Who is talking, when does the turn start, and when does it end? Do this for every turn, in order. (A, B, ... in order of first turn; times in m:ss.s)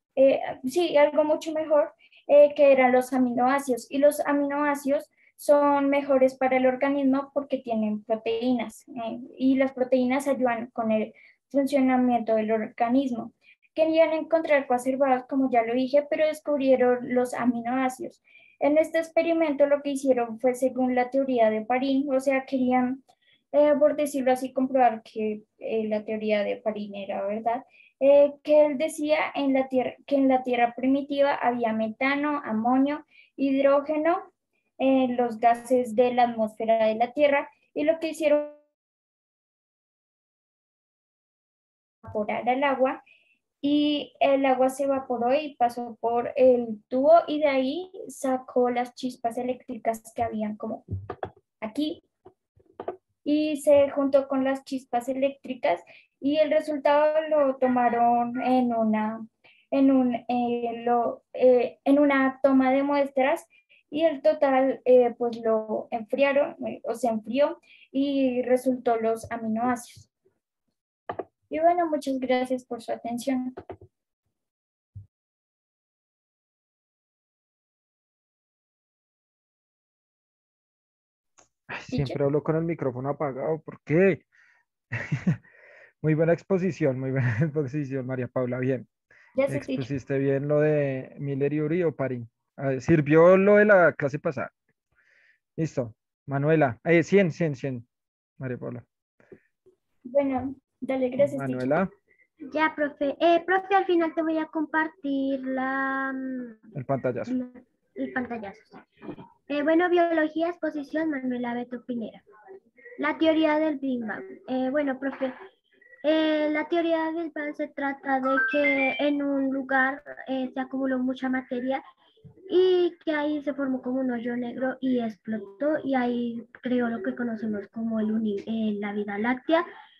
0:00.2-0:23.0 A
0:23.5-0:34.3 A
0:34.8-0:38.6 A
0:42.0-0:43.0 A
0:43.6-0:50.8 A
0:51.6-0:52.0 A
0:53.2-1:10.1 A
1:11.5-1:13.5 A
1:21.7-1:24.2 B
1:21.9-1:22.2 A
1:24.9-1:25.4 B
1:26.0-1:28.9 B
1:29.4-1:29.9 A
1:29.5-1:34.5 B
1:35.6-1:37.8 B
1:38.4-1:38.8 B
1:40.1-1:41.8 A
1:41.2-1:41.9 B
1:42.5-1:46.6 C
1:46.7-1:47.4 B
1:47.3-1:48.8 C
1:49.5-1:52.2 C
1:53.0-1:55.4 C
1:56.0-2:01.8 C
2:02.5-2:09.7 C